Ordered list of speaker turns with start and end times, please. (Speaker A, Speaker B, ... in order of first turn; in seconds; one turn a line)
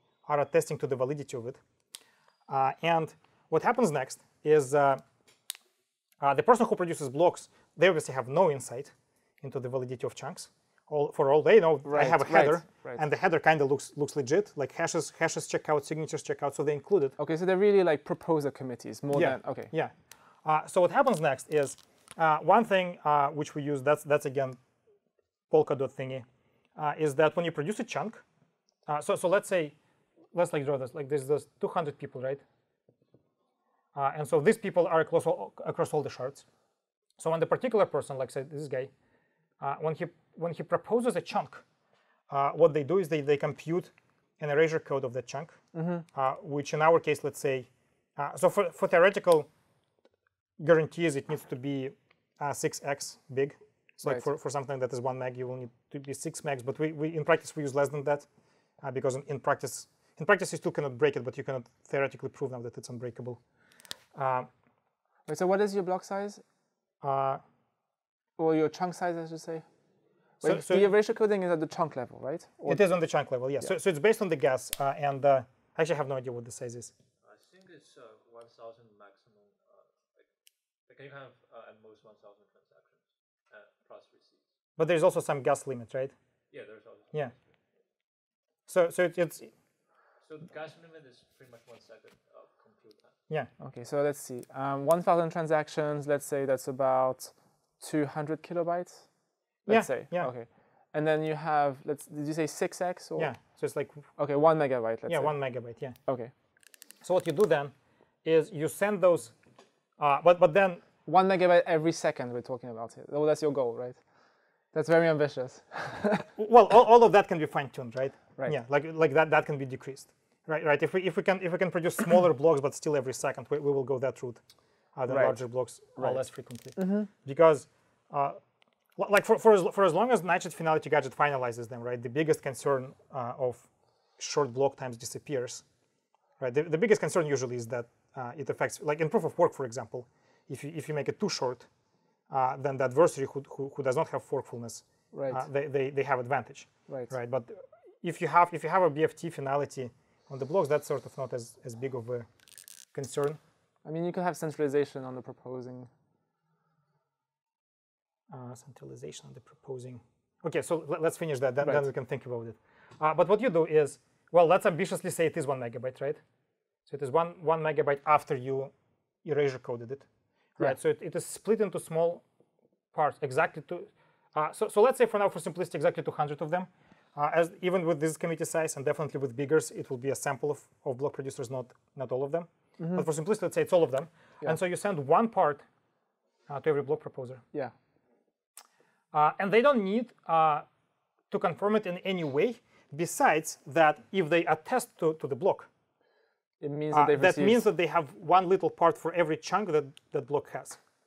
Speaker A: 0.2-1.6
Speaker A: 2.5-5.0
Speaker A: 6.2-17.1
Speaker B: 11.8-13.0
Speaker B: 17.2-19.7
Speaker A: 19.1-19.9
Speaker A: 20.4-24.6
Speaker A: 25.5-26.2
Speaker A: 26.8-28.2
Speaker A: 28.9-29.7
Speaker A: 30.3-32.4
Speaker A: 33.9-36.4
Speaker A: 37.2-38.9
Speaker A: 39.6-41.6
Speaker A: 42.3-49.5
Speaker B: 45.7-46.0
Speaker A: 50.6-58.3
Speaker A: 58.8-63.4
Speaker A: 64.1-64.5
Speaker B: 65.3-66.4
Speaker A: 67.0-67.4
Speaker B: 68.4-69.7
Speaker B: 70.4-72.8
Speaker A: 70.4-70.9
Speaker A: 72.7-76.9
Speaker C: 77.2-80.3
Speaker C: 80.9-84.5
Speaker A: 84.8-86.1
Speaker C: 86.5-87.5
Speaker A: 88.7-89.5
Speaker C: 90.2-93.2
Speaker B: 93.6-99.1
Speaker A: 99.7-100.3
Speaker B: 99.7-103.6
Speaker A: 103.2-104.2
Speaker B: 104.2-106.3
Speaker A: 105.1-106.0
Speaker A: 107.0-109.3
Speaker A: 110.0-110.8
Speaker B: 111.0-114.0
Speaker B: 114.7-116.2
Speaker A: 116.4-124.4
Speaker A: 124.9-128.4
Speaker B: 125.1-127.1
Speaker A: 129.0-135.6
Speaker A: 136.4-141.7
Speaker A: 142.3-152.3
Speaker B: 145.1-145.4
Speaker B: 146.9-147.1
Speaker A: 152.9-153.4
Speaker B: 153.8-155.9
Speaker A: 158.3-166.2
Speaker A: 166.9-168.7
Speaker A: 169.2-170.1
Speaker A: 170.6-172.2
Speaker A: 172.9-185.6
Speaker B: 182.8-183.1
Speaker A: 186.5-187.4
Speaker A: 189.1-190.6
Speaker A: 191.3-195.7
Speaker B: 196.6-197.6
Speaker A: 196.9-200.8